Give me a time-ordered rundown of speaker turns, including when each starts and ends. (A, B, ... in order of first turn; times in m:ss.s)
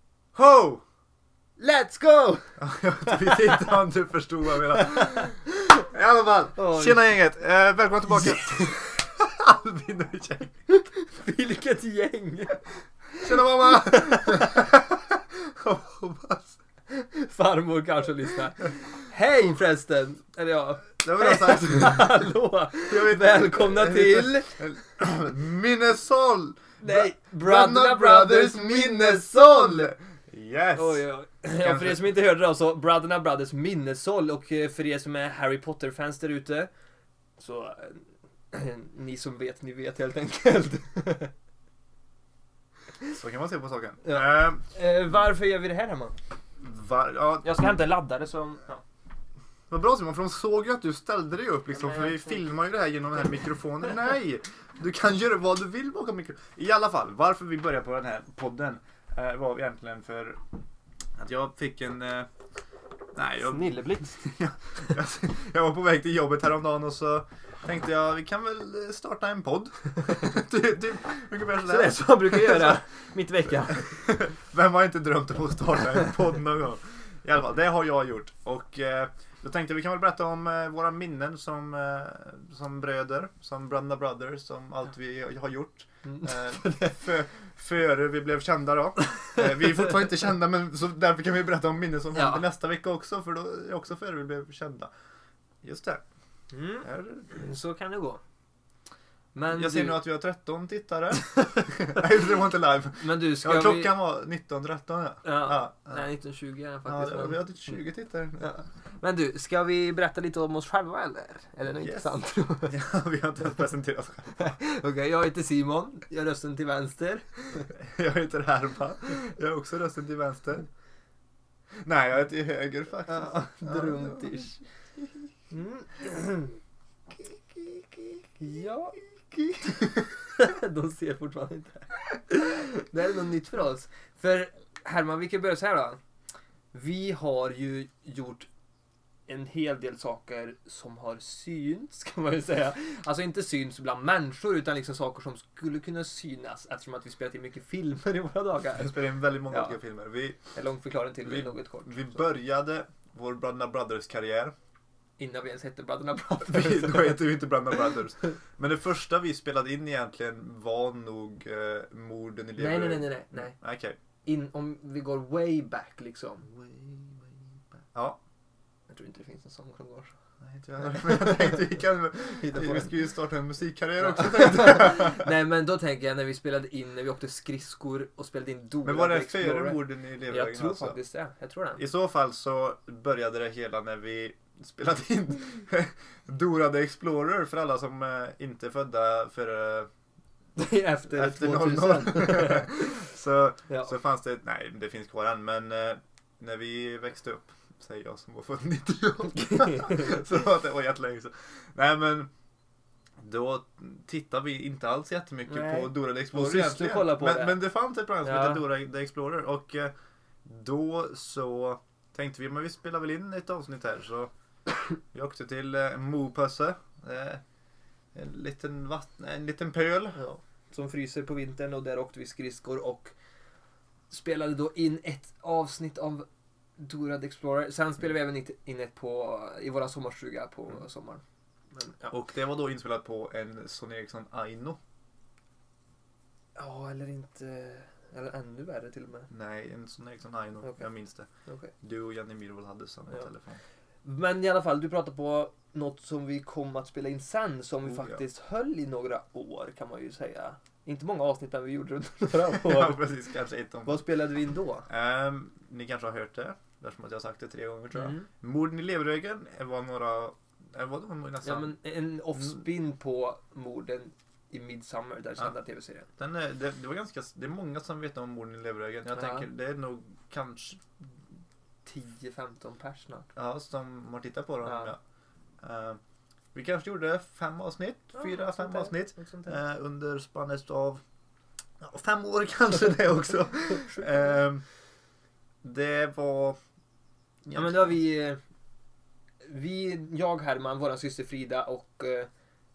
0:00.3-0:00.8 A
0:01.6-0:03.7 B
0:02.6-0:10.6 A
0:04.9-0:05.3 B
0:06.5-0:07.0 B
0:08.1-0:08.6 B
0:10.7-0:12.7 B
0:13.2-0:16.6 A
0:13.7-0:14.6 B
0:16.9-0:24.7 B
0:21.0-0:22.1 A
0:22.9-0:32.2 A
0:26.8-0:29.9 B
0:30.8-0:36.7 B
0:37.4-0:41.3 B
0:43.2-0:44.6 A
0:44.0-0:46.2 B
0:46.6-0:47.6 A
0:47.4-0:48.8 B
0:49.7-1:00.4 A
0:51.7-0:52.5 B
1:01.2-1:02.3 A
1:03.1-1:12.8 A
1:03.4-1:04.4 B
1:11.6-1:13.9 B
1:13.8-1:34.9 A
1:26.0-1:27.1 B
1:32.1-1:32.4 B
1:35.6-1:36.0 A
1:36.5-1:38.2 B
1:36.8-1:37.3 A
1:39.3-1:40.0 B
1:39.5-1:46.2 A
1:43.0-1:43.9 B
1:45.2-1:47.8 B
1:46.8-1:48.5 A
1:48.4-1:52.8 B
1:51.8-1:52.1 A
1:52.7-1:54.6 A
1:54.4-1:57.7 B
1:57.7-2:00.7 A
2:01.8-2:04.4 A
2:03.1-2:04.6 B
2:05.5-2:06.6 B
2:08.3-2:16.0 B
2:16.7-2:18.5 B
2:19.3-2:29.8 B
2:28.7-2:30.4 A
2:30.5-2:32.2 B
2:31.2-2:34.5 A
2:35.2-2:37.5 B
2:36.4-2:44.0 A
2:42.6-2:43.6 B
2:44.2-2:46.5 B
2:46.5-2:47.3 A
2:48.9-2:50.1 B
2:50.4-2:55.3 A
2:50.8-2:51.6 B
2:52.2-2:53.1 B
2:54.0-3:01.8 B
2:58.8-3:01.0 A
3:01.8-3:09.9 A
3:10.6-3:13.0 B
3:11.1-3:22.3 A
3:19.2-3:20.3 B
3:23.2-3:29.9 A
3:25.5-3:27.6 B
3:28.2-3:28.6 B
3:30.4-3:34.3 A
3:35.1-3:37.4 A
3:38.1-3:40.2 A
3:40.1-3:43.1 B
3:44.1-3:46.3 B
3:46.8-3:51.2 B
3:51.7-3:52.1 B
3:52.0-3:54.8 A
3:56.6-3:59.3 B
3:59.3-4:01.3 A
4:00.6-4:00.9 B
4:01.4-4:01.7 B
4:01.8-4:03.6 A
4:04.0-4:13.0 B
4:07.8-4:08.2 A
4:12.4-4:14.0 A
4:13.8-4:14.9 B
4:14.9-4:21.8 A
4:17.9-4:18.3 B
4:21.4-4:26.1 B
4:26.2-4:30.9 A
4:29.0-4:29.5 B
4:31.8-4:33.3 B
4:33.4-4:35.0 A
4:34.6-4:34.9 B
4:35.6-4:36.0 A
4:36.5-4:41.0 A
4:38.1-4:39.6 B
4:41.8-4:44.6 A
4:43.7-4:44.4 B
4:45.6-4:46.6 A
4:47.4-4:48.0 A
4:47.5-4:48.4 B
4:49.4-4:52.3 B